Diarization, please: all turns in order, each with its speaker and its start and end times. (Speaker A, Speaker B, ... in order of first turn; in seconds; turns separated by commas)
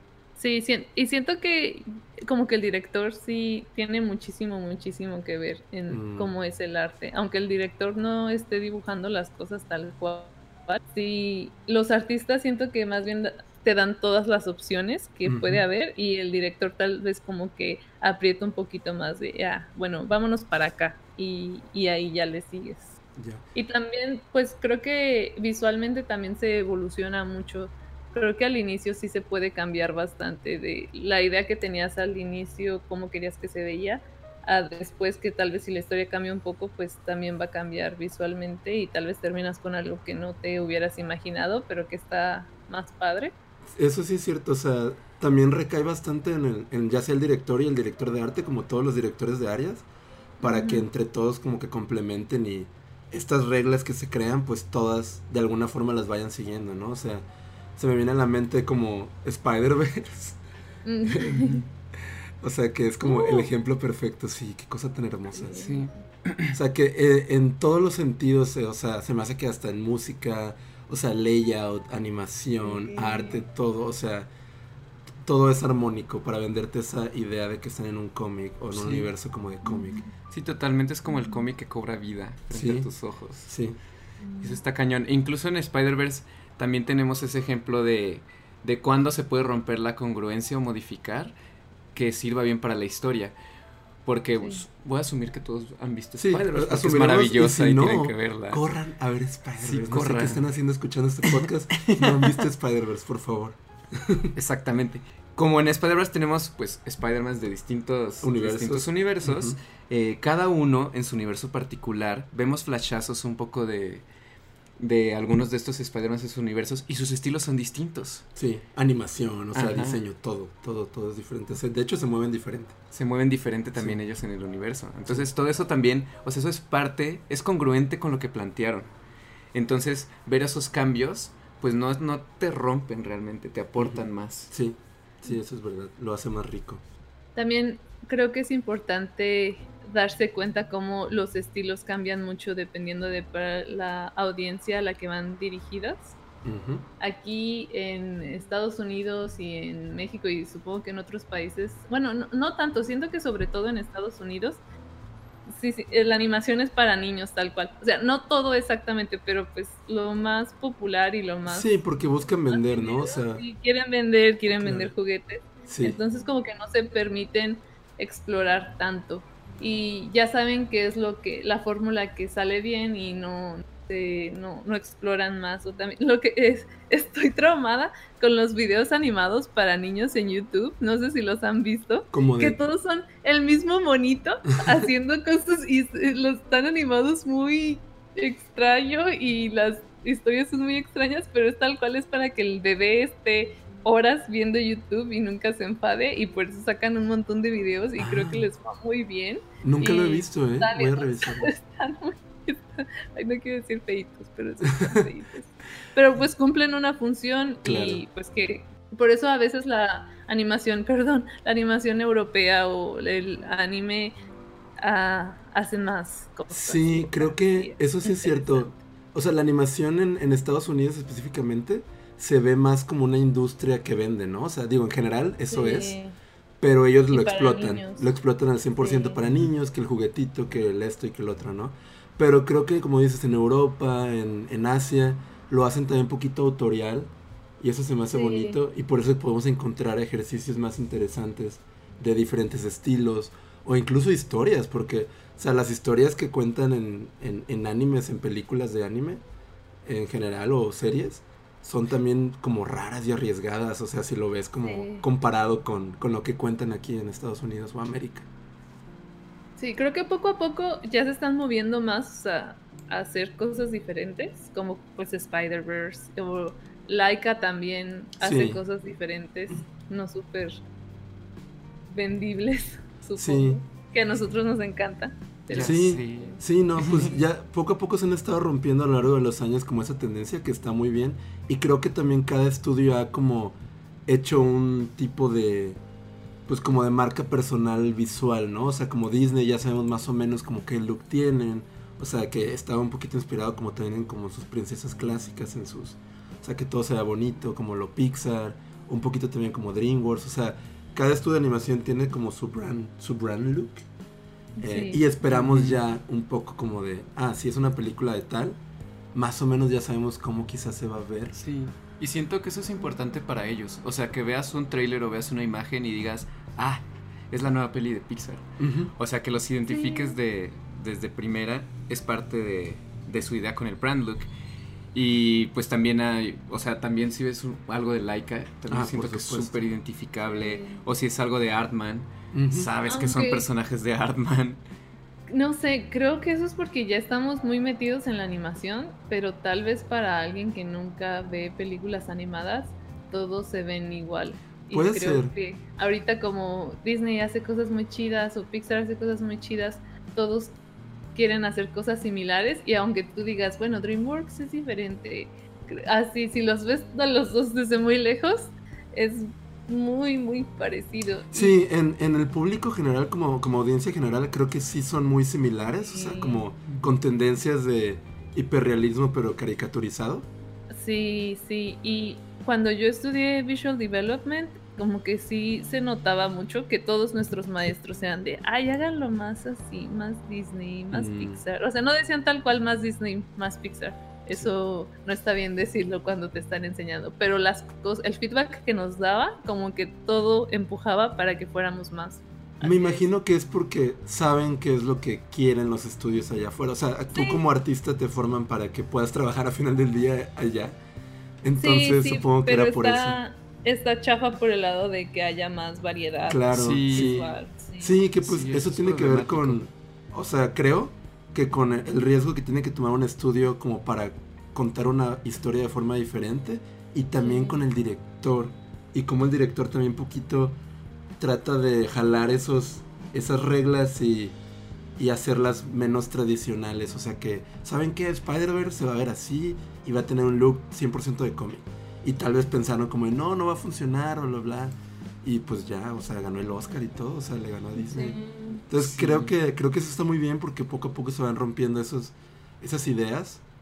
Speaker A: 0.4-23.0, Speaker B: 5.9-6.3, Speaker B: 15.2-15.7, Speaker B: 23.2-23.4, Speaker A: 23.6-43.4, Speaker B: 43.8-49.9, Speaker B: 50.4-60.4, Speaker A: 50.4-50.9, Speaker A: 60.9-61.6, Speaker C: 61.2-61.6, Speaker B: 62.4-65.7, Speaker A: 63.1-63.5, Speaker A: 65.3-65.9, Speaker C: 65.6-66.6, Speaker B: 66.5-74.3, Speaker A: 72.6-73.4, Speaker B: 75.2-80.0, Speaker C: 78.7-79.1, Speaker A: 79.6-80.1, Speaker C: 80.3-83.5, Speaker A: 81.1-81.4, Speaker B: 82.5-82.9, Speaker B: 83.5-83.8, Speaker A: 84.2-84.6, Speaker C: 84.4-91.3, Speaker C: 91.9-93.3, Speaker C: 94.0-98.6, Speaker B: 96.2-104.3, Speaker C: 99.6-100.5, Speaker C: 101.2-102.5, Speaker C: 104.3-114.0, Speaker B: 108.2-109.6, Speaker C: 114.8-118.2, Speaker B: 118.4-122.8, Speaker C: 119.5-120.0, Speaker C: 122.9-128.9, Speaker B: 123.7-124.0, Speaker C: 129.5-134.5, Speaker B: 133.8-136.8, Speaker A: 137.4-146.2, Speaker B: 146.4-146.9, Speaker A: 147.0-154.6, Speaker A: 155.5-161.7, Speaker B: 161.5-163.4, Speaker A: 162.5-214.2, Speaker B: 164.5-164.9, Speaker B: 165.7-166.0, Speaker B: 182.1-182.6, Speaker B: 198.0-198.5, Speaker B: 199.6-201.5, Speaker B: 204.8-205.1, Speaker B: 207.6-208.1, Speaker A: 214.8-218.7, Speaker B: 216.5-226.0, Speaker A: 225.5-226.1, Speaker B: 226.6-249.2, Speaker A: 227.1-228.1, Speaker A: 228.8-229.2, Speaker A: 238.1-238.6, Speaker B: 249.8-258.3, Speaker A: 254.6-255.1, Speaker A: 259.6-270.6, Speaker B: 268.2-268.6, Speaker A: 271.9-275.8, Speaker B: 273.2-273.6, Speaker C: 275.5-277.2, Speaker B: 275.6-285.8, Speaker B: 286.5-303.9, Speaker A: 304.6-305.0, Speaker B: 304.6-308.6, Speaker C: 305.3-305.8, Speaker B: 309.1-311.4, Speaker C: 311.4-324.3, Speaker B: 318.6-318.9, Speaker A: 319.7-320.1, Speaker C: 324.9-334.6, Speaker B: 328.7-329.7, Speaker A: 330.3-330.8, Speaker B: 332.3-332.7, Speaker A: 332.9-333.5, Speaker A: 335.3-350.6, Speaker B: 344.7-345.3, Speaker A: 351.1-361.6, Speaker B: 361.3-370.3, Speaker A: 365.6-366.4, Speaker A: 370.7-393.1, Speaker B: 380.9-381.4, Speaker B: 392.6-400.8, Speaker A: 397.1-397.4, Speaker B: 401.4-403.2, Speaker A: 401.6-408.0, Speaker B: 406.3-420.6, Speaker C: 406.5-407.3, Speaker C: 408.2-409.6, Speaker A: 417.2-417.6, Speaker B: 421.2-424.4, Speaker B: 425.0-438.2, Speaker A: 437.8-438.6, Speaker B: 438.7-443.4, Speaker C: 438.7-439.3